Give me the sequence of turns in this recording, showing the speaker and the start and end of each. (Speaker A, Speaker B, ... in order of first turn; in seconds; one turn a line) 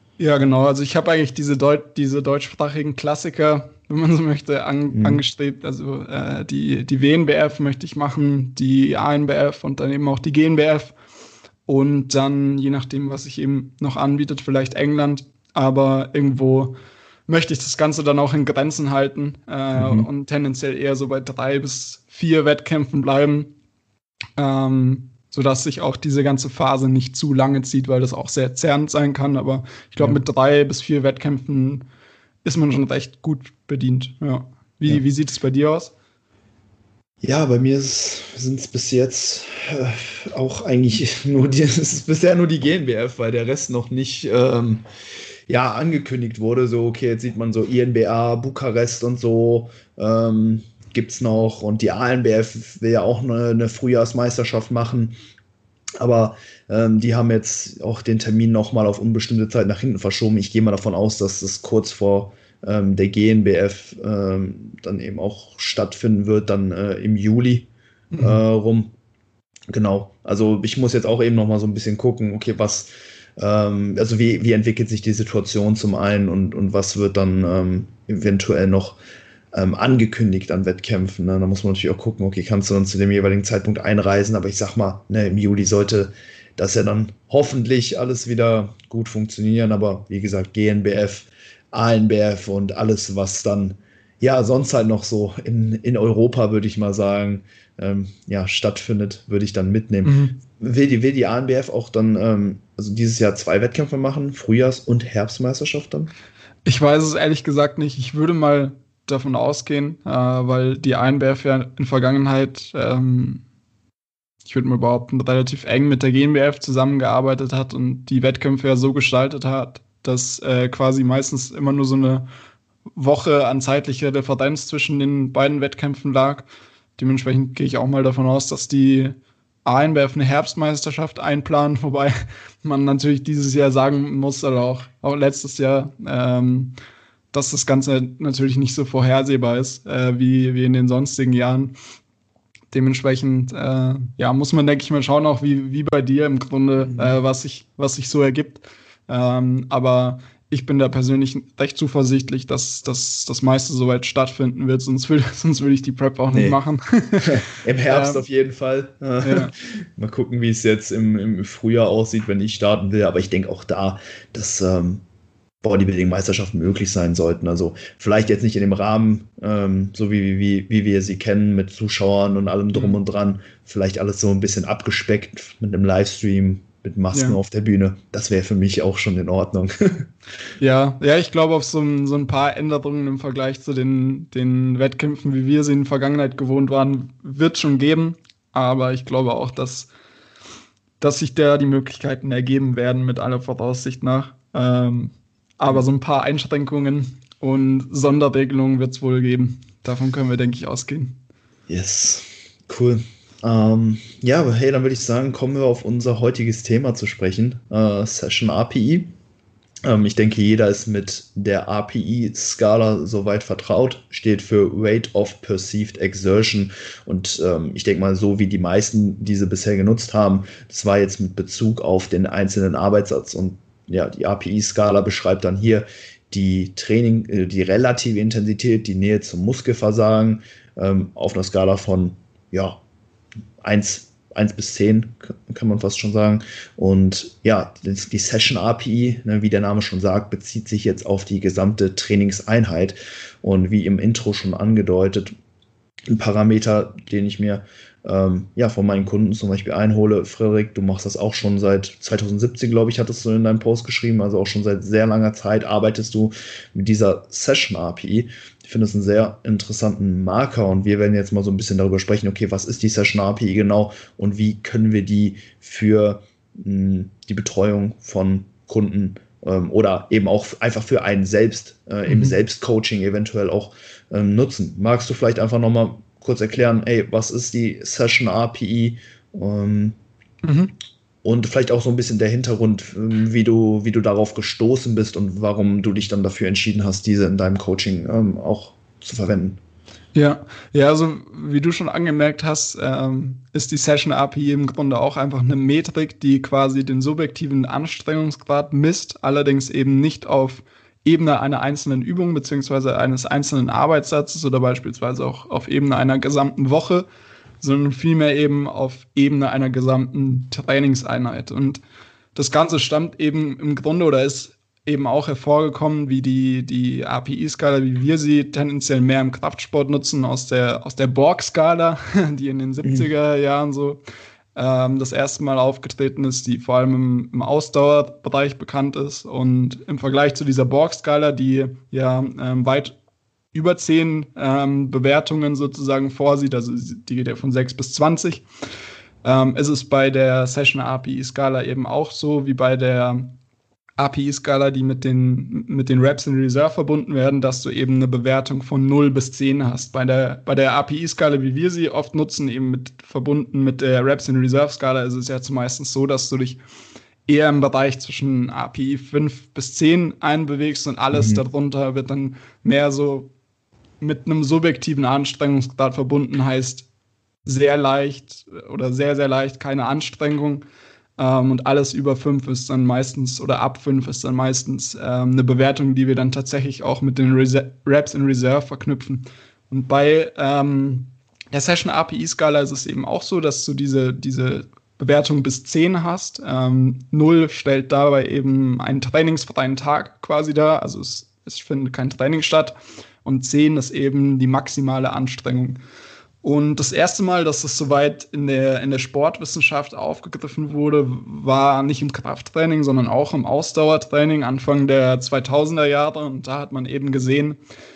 Speaker A: 0.2-10.9
Speaker B: 4.9-5.2
Speaker A: 11.7-16.7
Speaker A: 17.3-23.5
Speaker B: 19.7-20.1
Speaker A: 24.4-31.8
Speaker A: 32.4-35.9
Speaker B: 37.2-44.8
Speaker B: 45.5-55.1
Speaker B: 56.0-68.9
Speaker A: 68.1-68.4
Speaker B: 69.7-79.0
Speaker B: 79.5-106.1
Speaker A: 100.0-100.4
Speaker A: 106.6-113.4
Speaker A: 114.4-122.2
Speaker A: 122.9-136.7
Speaker A: 137.3-141.7
Speaker A: 142.7-158.2
Speaker B: 146.8-147.2
Speaker B: 156.3-156.6
Speaker B: 157.2-165.0
Speaker A: 159.2-159.5
Speaker B: 165.6-180.1
Speaker A: 172.7-173.0
Speaker A: 177.1-177.4
Speaker A: 180.6-189.9
Speaker A: 191.0-201.2
Speaker B: 201.7-209.1
Speaker B: 209.8-232.8
Speaker B: 233.6-245.3
Speaker B: 246.1-280.0
Speaker A: 272.1-272.4
Speaker A: 280.4-280.7
Speaker B: 281.2-289.6
Speaker A: 290.1-307.1
Speaker A: 307.6-311.8
Speaker A: 312.3-324.0
Speaker A: 324.5-332.9
Speaker A: 333.5-338.4
Speaker A: 339.2-343.3
Speaker A: 344.0-356.6
Speaker A: 357.3-363.3
Speaker B: 361.1-361.4
Speaker A: 364.0-366.9
Speaker A: 367.4-370.6
Speaker A: 371.2-395.8
Speaker A: 396.4-407.6